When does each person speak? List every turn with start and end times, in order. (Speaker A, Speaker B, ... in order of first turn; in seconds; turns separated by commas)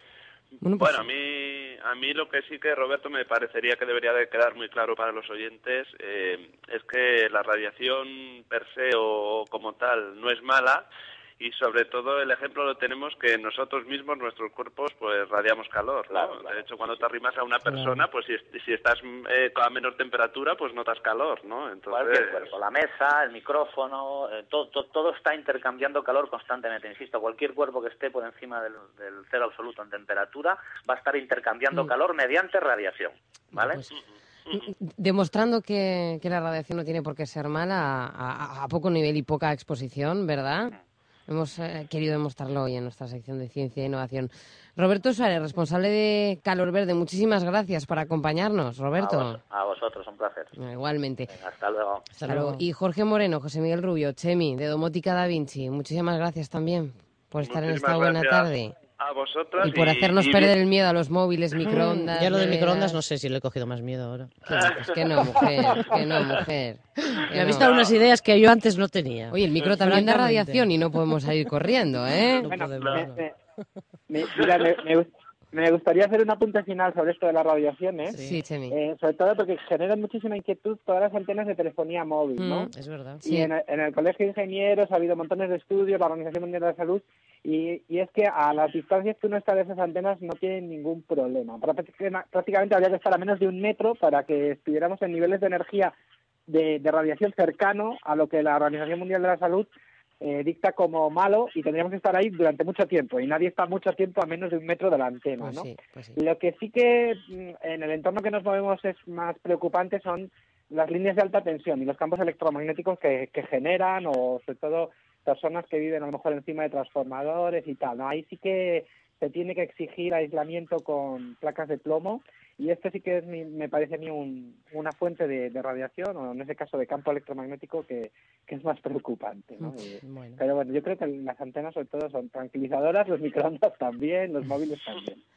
Speaker A: 0.6-1.0, Speaker B: 0.8-10.9, Speaker B: 11.4-22.5, Speaker C: 16.1-16.5, Speaker C: 21.9-33.8, Speaker A: 33.6-33.8, Speaker B: 33.9-34.7, Speaker A: 34.5-40.8, Speaker A: 41.3-49.4, Speaker C: 49.0-50.5, Speaker A: 50.5-51.3, Speaker C: 51.3-52.2, Speaker D: 52.1-52.6, Speaker A: 52.2-58.8, Speaker B: 57.4-60.6, Speaker A: 59.6-63.0, Speaker D: 61.6-64.7, Speaker A: 64.5-67.7, Speaker B: 64.5-65.5, Speaker D: 65.6-65.9, Speaker D: 67.2-70.7, Speaker B: 67.5-68.0, Speaker A: 69.3-72.5, Speaker D: 72.2-73.2, Speaker E: 72.5-73.3, Speaker B: 72.8-73.1, Speaker E: 74.1-78.2, Speaker D: 78.1-78.4, Speaker A: 78.2-78.8, Speaker E: 78.7-82.7, Speaker A: 82.4-82.7, Speaker D: 82.7-83.2, Speaker A: 83.2-83.5, Speaker E: 83.2-95.9, Speaker E: 96.5-99.7, Speaker E: 100.2-135.2, Speaker A: 105.4-106.2, Speaker D: 130.0-130.4